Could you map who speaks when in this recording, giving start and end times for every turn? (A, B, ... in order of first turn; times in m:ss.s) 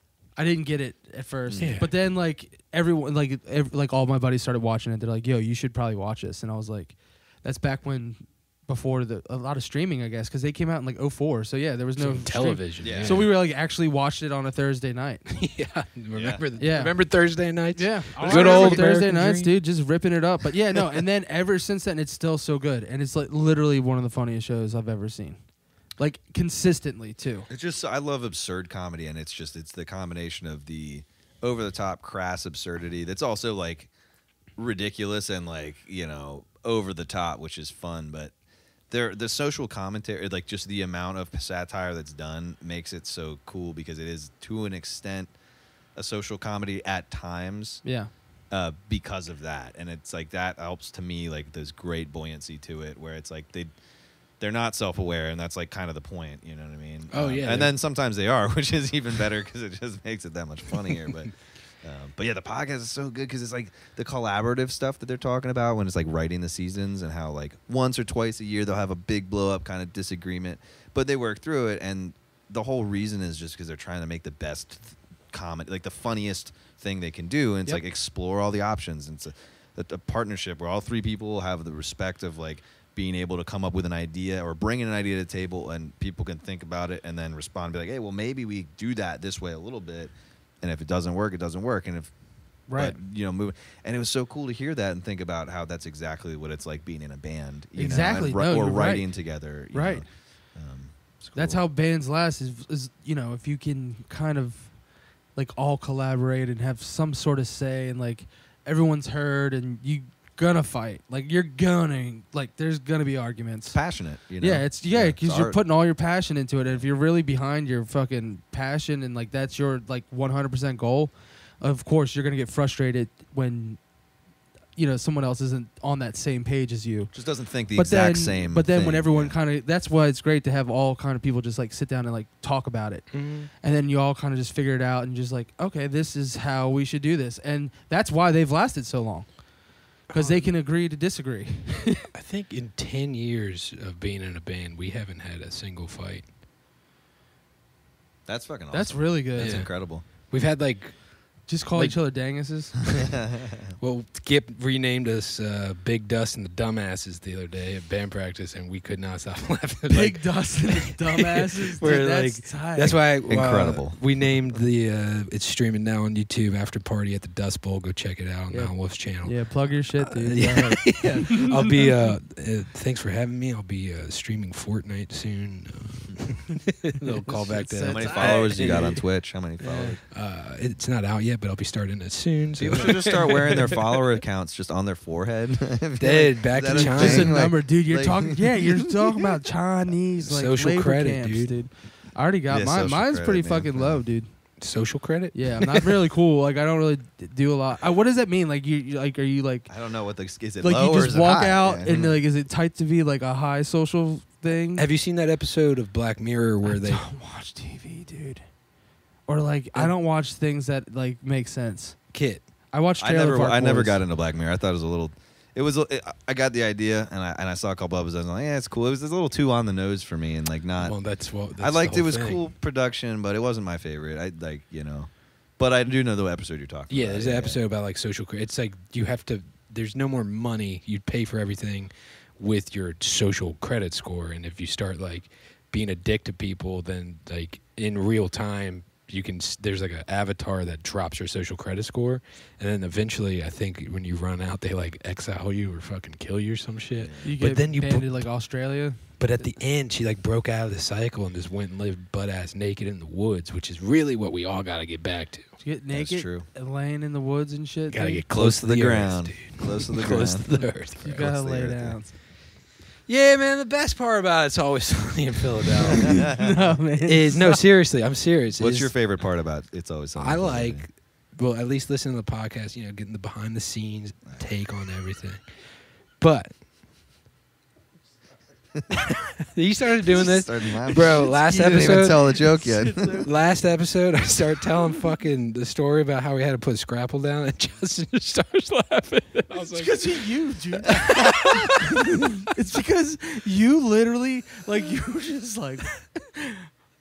0:00.4-0:15.2 A
0:01.5-0:01.8 B
0:01.6-0:01.9 C
0:12.0-0:13.3 C
0:12.8-0:13.3 B
0:15.3-0:19.6 C
0:16.1-0:16.4 B
0:16.6-0:17.2 A
0:17.7-0:25.4 A
0:18.2-0:19.0 B
0:26.0-0:27.5 A
0:27.5-0:33.9 B
0:34.6-0:38.3 B
0:38.9-0:45.3 B
0:46.0-0:47.8 B
0:47.8-0:48.1 A
0:48.5-0:53.7 B
0:54.4-1:32.1 B
0:57.1-0:57.7 C
1:32.7-1:33.0 A
1:32.8-1:41.6 B
1:37.8-1:39.1 A
1:39.7-1:40.0 A
1:41.4-1:44.8 A
1:45.4-1:53.8 A
1:53.7-1:55.6 B
1:54.4-2:03.8 A
2:04.8-2:07.1 A
2:07.1-2:09.4 B
2:07.7-2:19.4 A
2:13.1-2:13.5 C
2:20.1-2:22.1 A
2:20.1-2:20.5 C
2:22.1-2:26.3 C
2:28.3-2:30.0 B
2:28.7-2:29.6 A
2:29.4-2:32.0 C
2:31.5-2:32.8 A
2:32.9-2:33.7 B
2:33.8-2:59.0 C
2:39.9-2:43.0 A
2:42.8-2:44.0 B
2:48.5-2:51.9 A
2:57.2-2:59.0 A
2:57.9-3:00.0 B
2:59.6-3:00.0 A
3:00.1-3:04.0 C
3:02.6-3:09.2 B
3:06.0-3:07.5 C
3:06.8-3:14.3 A
3:10.2-3:11.5 C
3:12.5-3:14.0 B
3:14.6-3:15.9 C
3:15.3-3:19.7 A
3:19.7-3:22.2 B
3:20.6-3:24.9 A
3:24.8-3:27.0 C
3:26.6-3:28.4 A
3:29.3-3:32.0 A
3:32.1-3:32.4 C
3:32.7-3:34.0 A
3:33.0-3:41.0 B
3:40.8-3:42.4 C
3:41.6-3:47.6 B
3:46.9-4:08.2 C
4:07.0-4:07.3 B
4:07.2-4:09.5 A
4:09.2-4:15.5 C
4:15.6-4:18.2 A
4:15.9-4:16.5 B
4:17.9-4:21.3 C
4:18.3-4:22.0 B
4:21.0-4:22.1 A
4:23.1-4:26.3 C
4:25.8-4:27.6 A
4:26.0-4:26.7 B
4:27.1-4:28.9 C
4:28.6-4:30.8 B
4:30.2-4:35.4 C
4:36.2-4:36.5 C
4:39.2-4:42.6 C
4:40.1-4:43.2 B
4:40.9-4:43.3 A
4:43.2-4:50.3 C
4:49.5-4:56.7 A
4:50.9-4:52.0 C